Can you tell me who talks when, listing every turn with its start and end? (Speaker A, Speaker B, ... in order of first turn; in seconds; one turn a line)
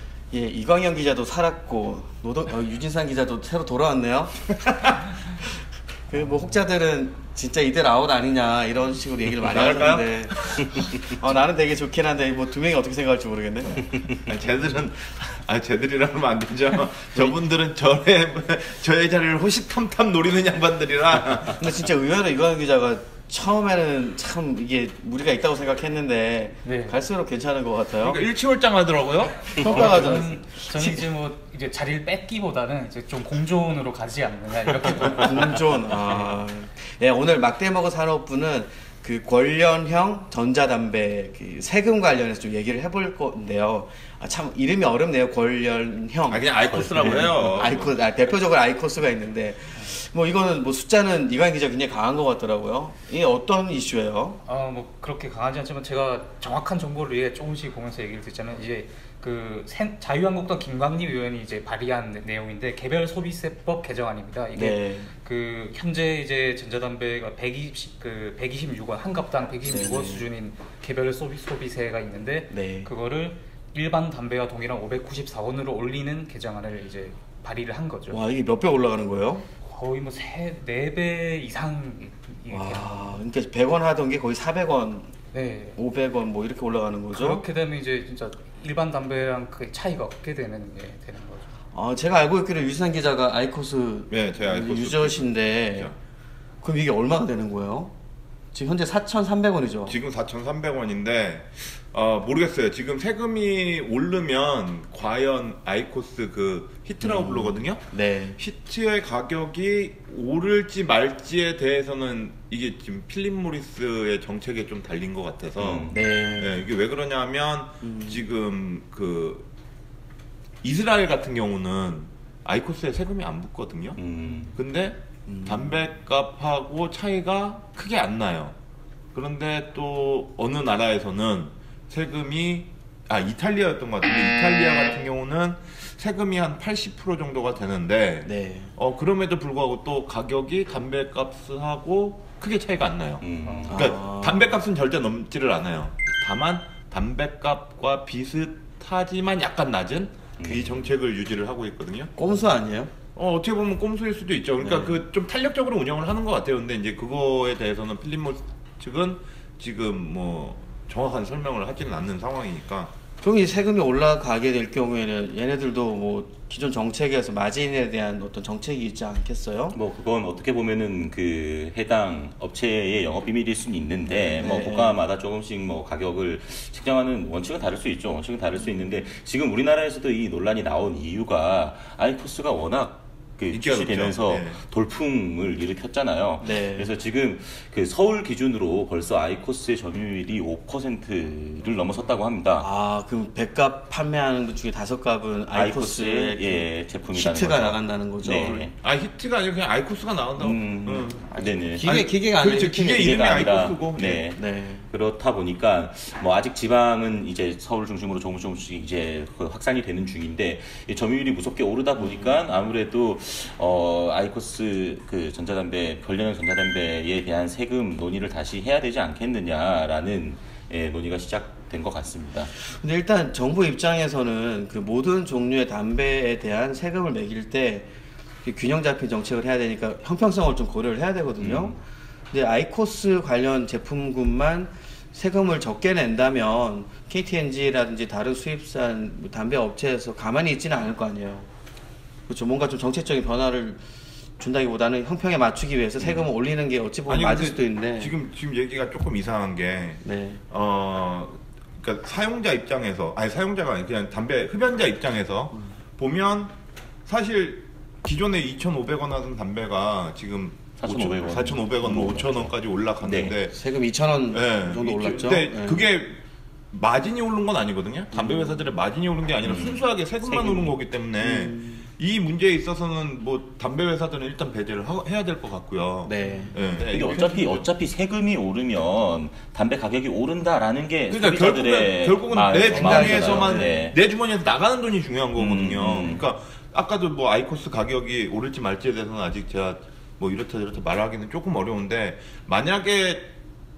Speaker A: 0.3-5.2
Speaker A: 6.1-13.9
Speaker B: 9.5-10.7
Speaker B: 14.3-21.7
Speaker A: 21.6-28.3
Speaker C: 26.6-27.1
Speaker B: 28.0-30.3
Speaker A: 29.5-31.0
Speaker C: 29.6-35.3
Speaker A: 35.1-54.4
Speaker C: 36.0-36.3
Speaker B: 46.3-48.0
Speaker D: 46.7-47.4
Speaker C: 54.4-78.2
Speaker A: 64.5-65.1
Speaker A: 69.6-70.3
Speaker A: 72.5-72.9
Speaker A: 78.1-79.5
Speaker C: 79.6-83.2
Speaker A: 82.5-85.1
Speaker C: 85.3-85.8
Speaker A: 85.8-87.4
Speaker C: 87.1-91.5
Speaker A: 91.7-95.9
Speaker B: 94.1-95.9
Speaker A: 96.6-97.9
Speaker A: 98.5-100.0
Speaker B: 99.9-107.8
Speaker A: 107.0-108.4
Speaker B: 108.4-119.5
Speaker D: 115.6-116.0
Speaker A: 115.9-116.6
Speaker A: 117.8-118.2
Speaker B: 120.6-124.0
Speaker D: 124.0-124.5
Speaker B: 124.5-128.5
Speaker A: 125.3-125.8
Speaker B: 129.1-152.1
Speaker A: 138.2-138.7
Speaker D: 143.2-143.9
Speaker C: 143.4-143.7
Speaker A: 143.7-144.6
Speaker D: 150.4-150.7
Speaker A: 152.2-152.9
Speaker B: 153.2-162.9
Speaker A: 154.6-155.0
Speaker A: 163.2-169.8
Speaker D: 169.7-192.7
Speaker A: 174.1-175.0
Speaker B: 183.5-184.6
Speaker A: 186.4-186.9
Speaker A: 192.6-198.7
Speaker D: 195.5-198.7
Speaker B: 198.8-204.2
Speaker D: 200.4-201.9
Speaker A: 201.3-203.7
Speaker D: 202.9-222.5
Speaker A: 204.4-204.9
Speaker A: 212.0-212.3
Speaker A: 222.6-227.9
Speaker A: 228.4-231.8
Speaker D: 231.4-231.8
Speaker A: 232.3-241.5
Speaker A: 242.3-243.8
Speaker A: 244.4-248.1
Speaker B: 246.0-246.3
Speaker B: 247.1-256.5
Speaker A: 250.0-250.4
Speaker B: 257.1-263.6
Speaker D: 260.8-263.4
Speaker A: 261.9-262.2
Speaker A: 263.5-265.9
Speaker B: 264.3-277.7
Speaker A: 268.1-268.7
Speaker D: 269.4-270.8
Speaker A: 271.2-271.9
Speaker A: 276.1-276.6
Speaker D: 276.9-284.0
Speaker B: 281.1-293.3
Speaker A: 282.6-283.8
Speaker D: 285.4-286.3